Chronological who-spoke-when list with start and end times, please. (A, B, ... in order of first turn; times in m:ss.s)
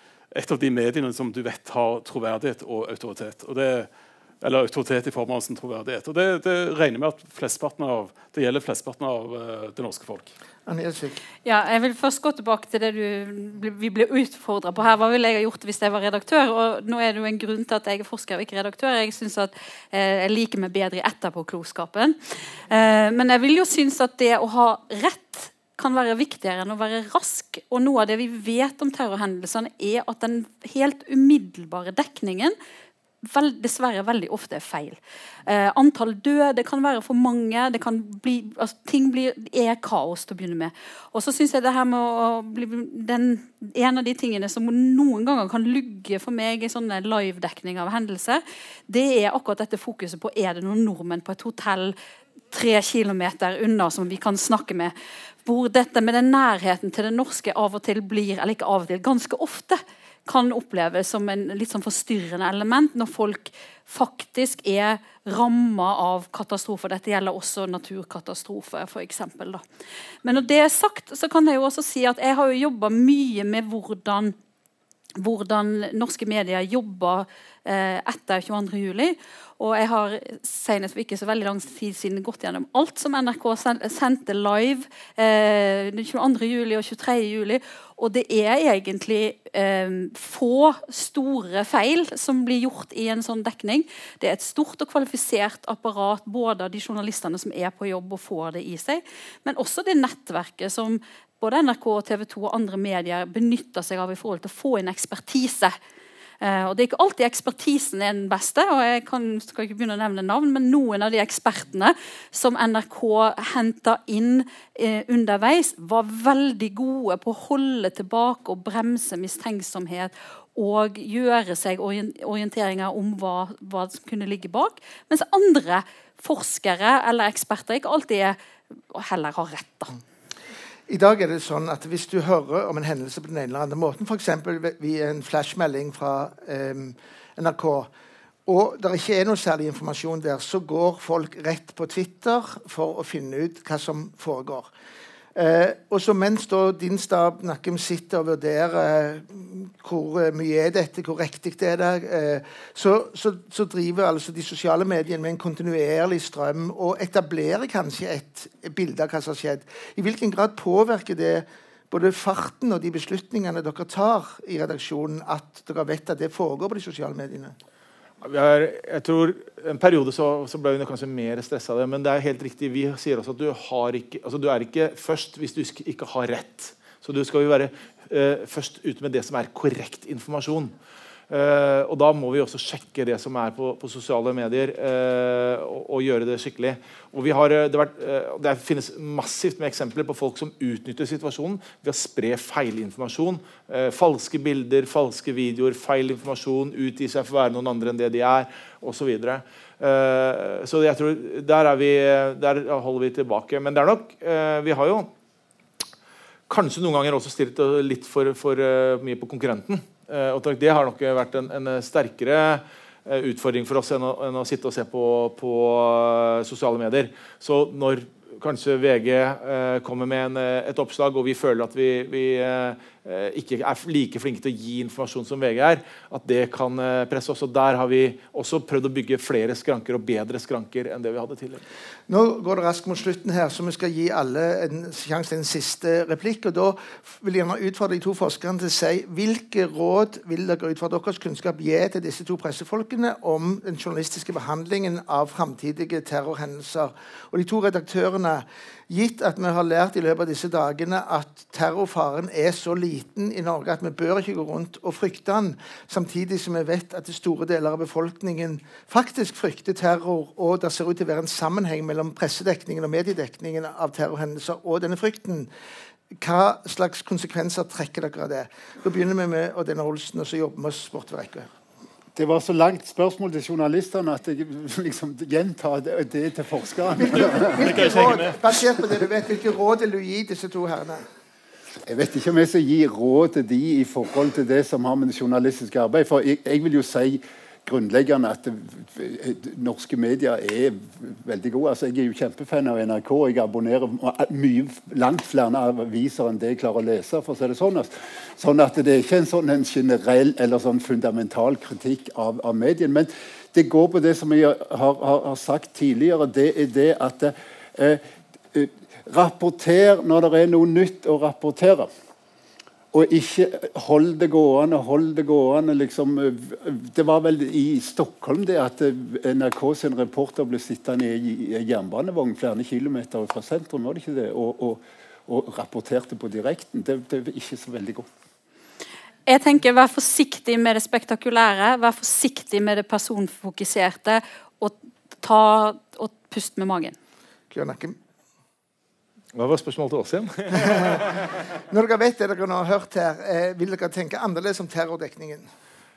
0:00.3-0:03.9 A
0:04.4-0:10.3 A
0:10.7-0:11.2 B
0:11.4-0:22.2 C
0:22.7-0:32.5 C
0:33.2-0:52.0 C
0:52.5-0:54.9 C
0:55.4-1:09.6 C
1:10.2-1:14.4 C
1:15.2-1:45.7 C
1:46.4-2:08.4 C
2:08.9-2:10.0 C
2:10.9-2:17.9 B
2:18.5-2:24.7 B
2:25.4-2:47.6 B
2:48.2-3:00.7 D
3:01.3-3:25.1 D
3:26.5-3:51.6 D
3:52.1-4:25.5 B
4:26.2-4:31.5 B
4:32.2-4:37.9 E
4:37.0-4:41.0 B
4:37.2-4:38.4 A
4:41.9-5:08.0 E
5:08.5-5:11.9 E
5:12.9-5:28.1 E
5:29.3-5:37.0 C
5:37.5-5:38.0 B
5:39.3-5:41.1 D
5:41.7-5:45.5 B